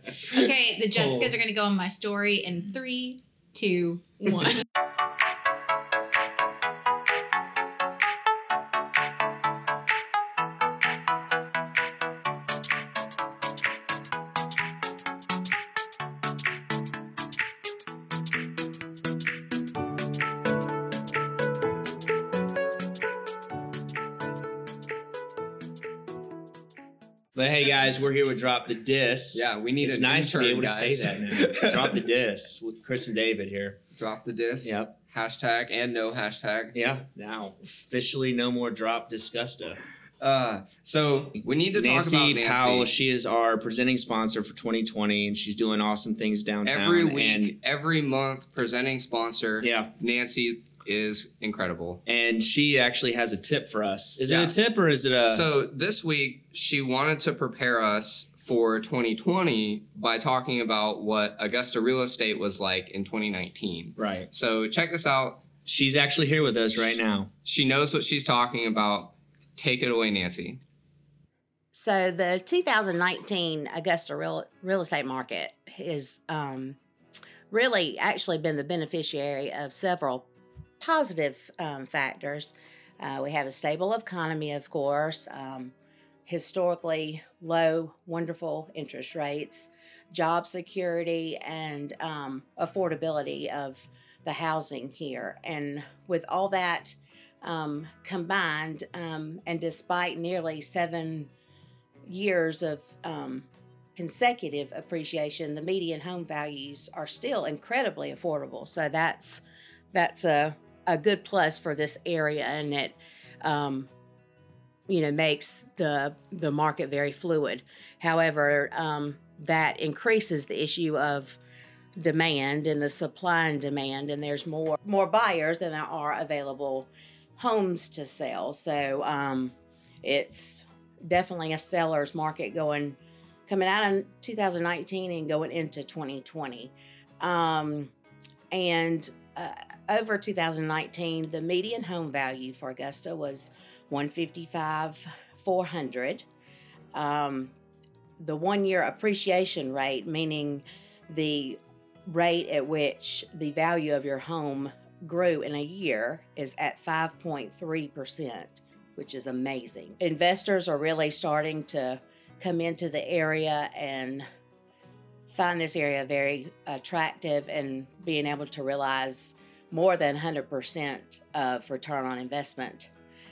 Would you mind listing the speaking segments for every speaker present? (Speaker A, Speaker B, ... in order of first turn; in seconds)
Speaker A: 0.3-4.6
Speaker B: 27.4-33.8, 34.6-35.0, 36.7-39.8, 41.7-47.5, 49.6-49.9, 52.1-55.5, 64.0-64.3, 65.7-67.3
Speaker C: 29.3-32.0, 34.0-36.8, 40.2-43.0, 46.6-52.0, 54.2-54.5, 55.3-65.5, 67.5-70.6
Speaker D: 71.7-76.8, 77.5-80.3, 80.8-85.7, 86.3-101.3, 102.1-109.4, 109.9-113.9, 114.9-121.4, 122.0-137.9, 138.5-146.2, 146.9-147.5, 148.2-164.3, 165.3-172.9